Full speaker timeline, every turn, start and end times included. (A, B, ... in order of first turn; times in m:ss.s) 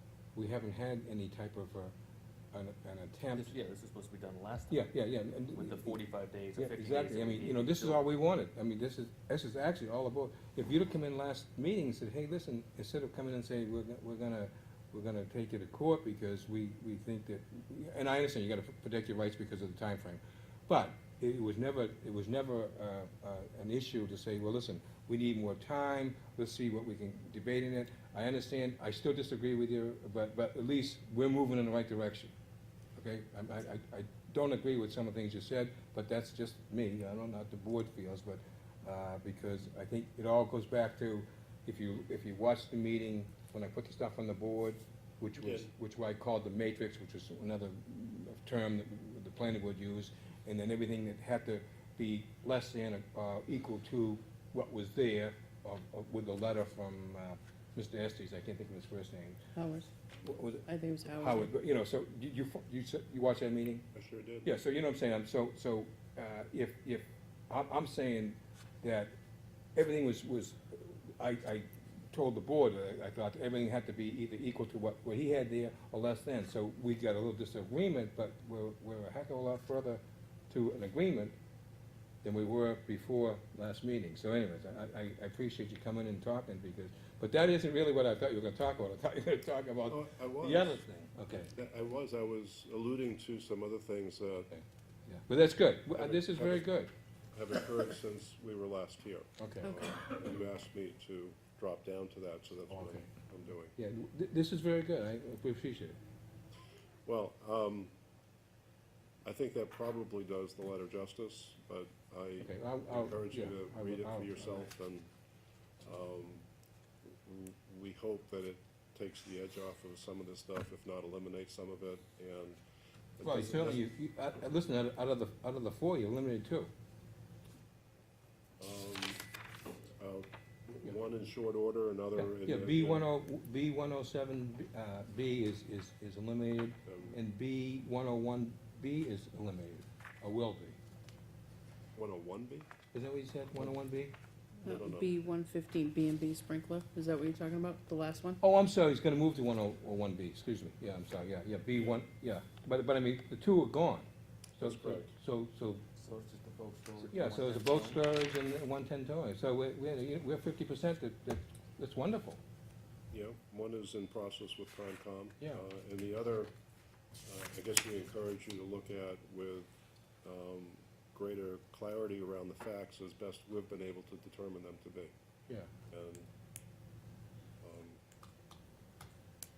0:00.4-0:01.9 A
0:02.5-0:03.6 A
0:03.3-0:04.9 B
0:04.7-0:06.0 A
0:05.5-0:08.0 B
0:06.6-0:32.3 A
0:33.0-0:59.4 A
0:45.4-0:45.7 C
0:59.6-0:59.9 D
1:00.2-1:03.9 A
1:00.7-1:01.5 D
1:03.9-1:04.5 C
1:04.4-1:09.1 A
1:09.8-1:21.4 A
1:22.2-1:31.5 A
1:29.9-1:30.8 C
1:31.4-1:34.5 C
1:34.5-1:36.9 A
1:36.0-1:36.8 C
1:37.3-1:43.8 C
1:39.4-1:39.8 A
1:42.7-1:43.1 A
1:43.8-1:46.0 A
1:47.0-1:47.9 C
1:49.2-1:55.1 C
1:52.4-1:54.7 A
1:55.8-1:56.4 C
1:57.1-2:02.6 C
2:03.2-2:03.9 C
2:03.2-2:06.7 A
2:08.6-2:09.2 C
2:10.0-2:13.1 C
2:12.2-2:20.8 A
2:16.9-2:17.2 C
2:22.0-2:22.7 C
2:22.9-2:24.1 A
2:24.6-2:25.1 C
2:24.6-2:28.4 D
2:28.4-2:35.8 A
2:34.6-2:35.1 C
2:36.0-2:38.0 B
2:37.1-2:42.4 A
2:43.1-2:46.5 C
2:47.2-2:49.7 C
2:50.2-2:55.1 C
2:55.9-2:56.3 C
2:57.6-2:58.0 C